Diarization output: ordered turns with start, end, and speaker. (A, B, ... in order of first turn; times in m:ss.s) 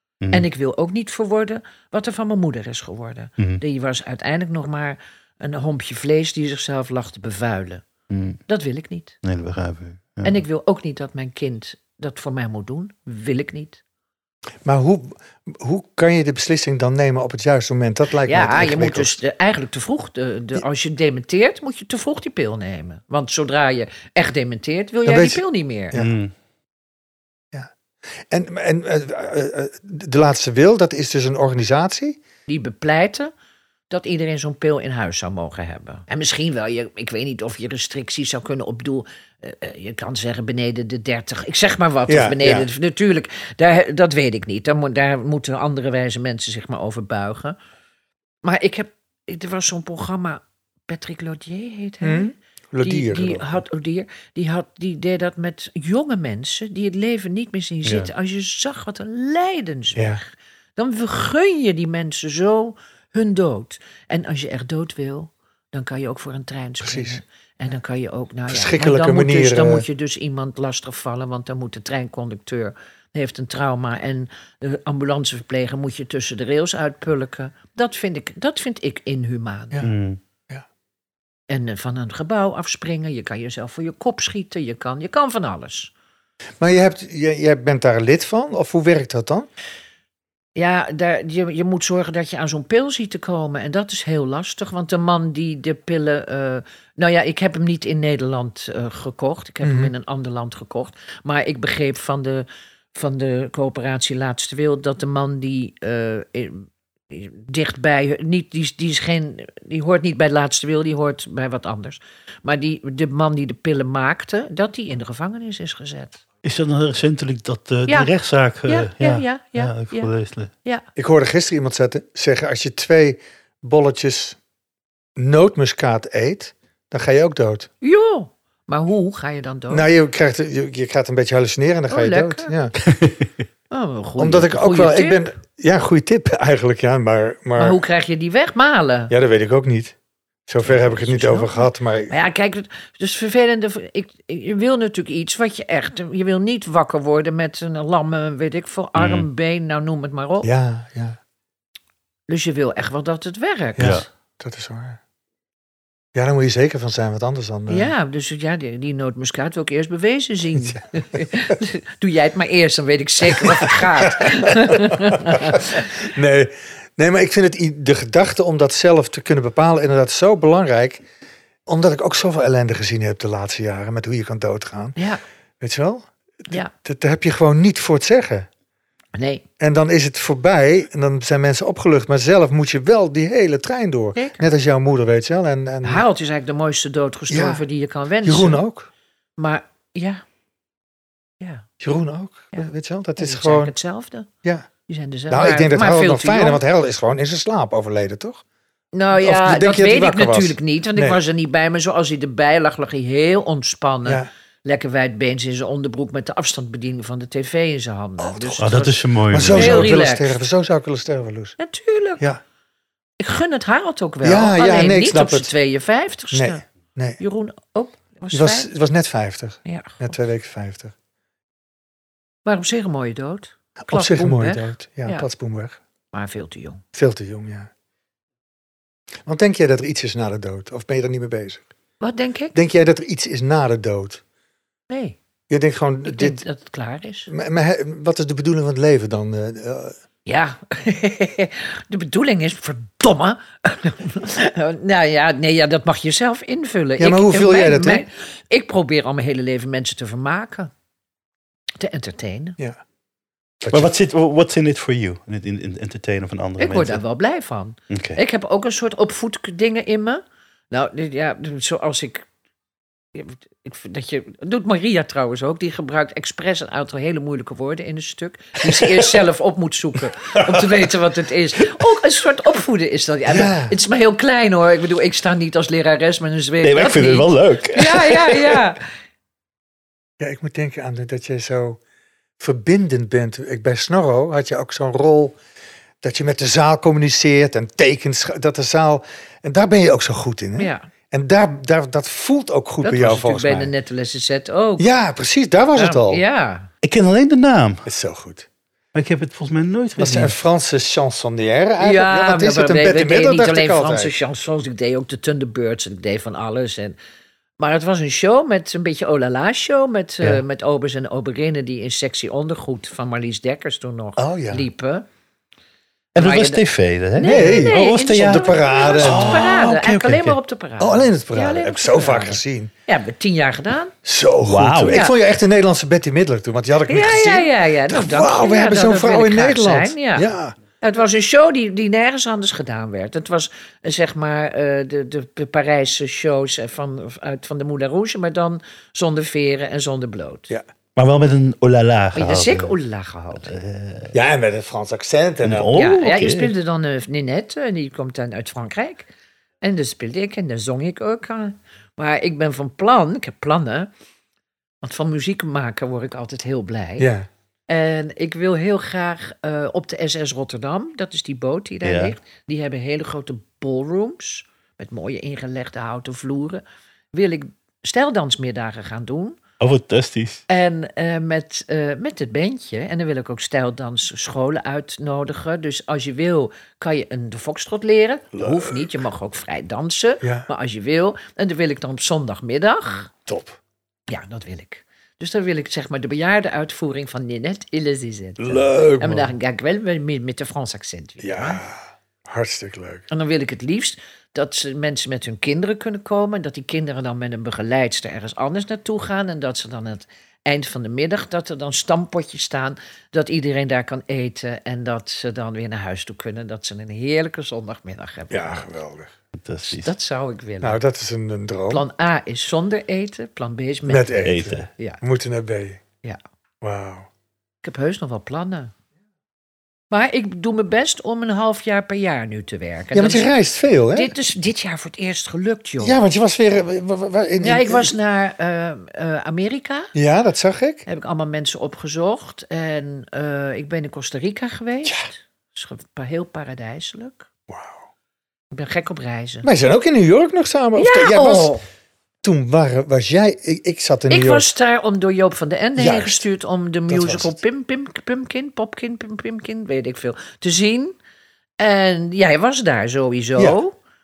0:00.3-0:07.8 A
0:08.1-0:08.4 B
0:08.5-0:09.2 A
0:09.2-0:10.4 B
0:10.2-0:13.8 A
0:14.6-0:19.2 C
0:18.2-0:26.0 A
0:25.0-0:26.1 C
0:25.9-0:26.3 B
0:28.3-0:32.2 C
0:32.5-0:33.3 A
0:33.9-0:47.6 A
0:42.1-0:42.7 C
0:48.4-1:19.8 A
0:52.0-0:53.6 C
1:00.0-1:00.2 C
1:06.8-1:07.2 C
1:08.5-1:09.8 C
1:19.8-1:20.2 B
1:21.5-1:25.9 A
1:26.6-1:29.5 C
1:30.6-1:56.2 A
1:39.6-1:39.9 C
1:56.4-2:00.5 B
1:58.6-2:00.1 A
2:01.0-2:04.4 C
2:05.2-2:07.7 C
2:07.8-2:09.9 A
2:09.7-2:12.8 C
2:11.9-2:12.5 A
2:13.7-2:15.3 A
2:14.2-2:17.8 C
2:17.6-2:19.1 A
2:19.1-2:20.0 C
2:20.5-2:22.1 C
2:21.0-2:30.5 A
2:29.0-2:29.3 B
2:30.4-2:31.2 C
2:32.3-2:34.0 A
2:33.8-2:35.0 C
2:33.8-2:34.0 B
2:36.1-2:37.9 C
2:37.7-2:45.9 A
2:43.3-2:51.0 C
2:51.6-2:55.0 C
2:55.6-2:58.5 C
2:59.2-2:59.4 A
2:59.6-3:06.0 C
3:04.2-3:04.4 A
3:05.8-3:08.6 A
3:07.3-3:07.6 C
3:08.2-3:08.9 C
3:09.4-3:10.2 A
3:11.4-3:11.6 A
3:11.8-3:13.7 C
3:12.5-3:14.3 A
3:14.9-3:16.6 A
3:15.3-3:18.4 C
3:18.9-3:30.4 A
3:19.1-3:21.2 C
3:28.2-3:28.6 C
3:28.6-3:29.9 B
3:29.3-3:31.6 C
3:31.6-3:32.2 A
3:33.2-3:36.6 A
3:34.2-3:35.5 C
3:36.3-3:37.2 C
3:37.2-3:38.7 A
3:38.3-3:40.9 C
3:39.6-3:40.1 A
3:42.4-3:45.3 A
3:43.8-3:45.8 C
3:46.1-3:46.8 A
3:46.9-3:47.7 C
3:49.2-3:51.7 C
3:52.0-3:52.6 A
3:52.5-3:54.2 C
3:54.9-3:55.2 A
3:55.5-3:56.4 C
3:56.0-3:57.3 A
3:57.3-4:00.0 C
4:00.2-4:10.7 A
4:07.0-4:08.0 C
4:11.8-4:12.6 A
4:13.6-4:13.9 C
4:13.7-4:17.0 B
4:16.6-4:22.2 A
4:17.9-4:18.2 B
4:23.1-4:38.8 A
4:33.3-4:33.8 C
4:36.6-4:38.6 B
4:40.2-4:41.8 C
4:42.4-4:45.4 C
4:46.0-4:53.7 C
4:50.6-4:50.9 A
4:52.8-4:54.9 A
4:54.8-4:56.2 C
4:55.7-4:56.7 A
4:56.8-4:57.8 B
4:57.8-4:58.5 C
4:58.9-5:00.3 B
5:00.0-5:04.2 C
5:01.8-5:07.0 A
5:07.6-5:15.0 A
5:14.2-5:14.6 C
5:16.1-5:20.4 B
5:16.2-5:16.6 A
5:17.1-5:23.9 A
5:17.2-5:20.1 C
5:20.8-5:22.7 C
5:24.0-5:30.5 C
5:24.4-5:25.0 B
5:24.9-5:25.1 A
5:26.9-5:40.5 A
5:41.0-5:42.7 B
5:42.1-5:43.5 A
5:43.4-5:44.1 B
5:44.1-5:45.8 C
5:45.4-5:46.5 B
5:45.7-5:49.1 A
5:49.6-5:53.9 A
5:54.8-5:57.1 A
5:57.0-5:57.3 C
5:57.7-6:09.4 A
6:01.8-6:02.1 B
6:09.6-6:10.4 B
6:10.5-6:23.1 A
6:18.3-6:18.9 C
6:20.2-6:20.5 C
6:23.2-6:23.6 C
6:24.1-6:31.6 A
6:28.4-6:29.3 C
6:31.2-6:33.0 C
6:33.1-6:48.6 A
6:48.3-6:49.1 C
6:49.4-6:49.9 B
6:49.7-6:50.8 A
6:50.6-6:51.8 C
6:51.7-6:54.2 A
6:53.8-6:55.8 C
6:54.2-6:54.7 B
6:56.6-6:57.1 C
6:57.6-6:58.7 A
6:59.9-7:03.3 A
7:02.9-7:04.1 C
7:03.9-7:06.0 A
7:05.8-7:07.9 C
7:07.4-7:09.9 A
7:09.9-7:10.8 C
7:10.8-7:17.3 A
7:17.5-7:17.9 C
7:18.5-7:19.5 A
7:19.4-7:21.5 C
7:20.8-7:21.6 A
7:22.2-7:24.5 C
7:24.1-7:30.9 A
7:25.8-7:26.2 C
7:26.9-7:27.4 C
7:31.6-7:33.7 A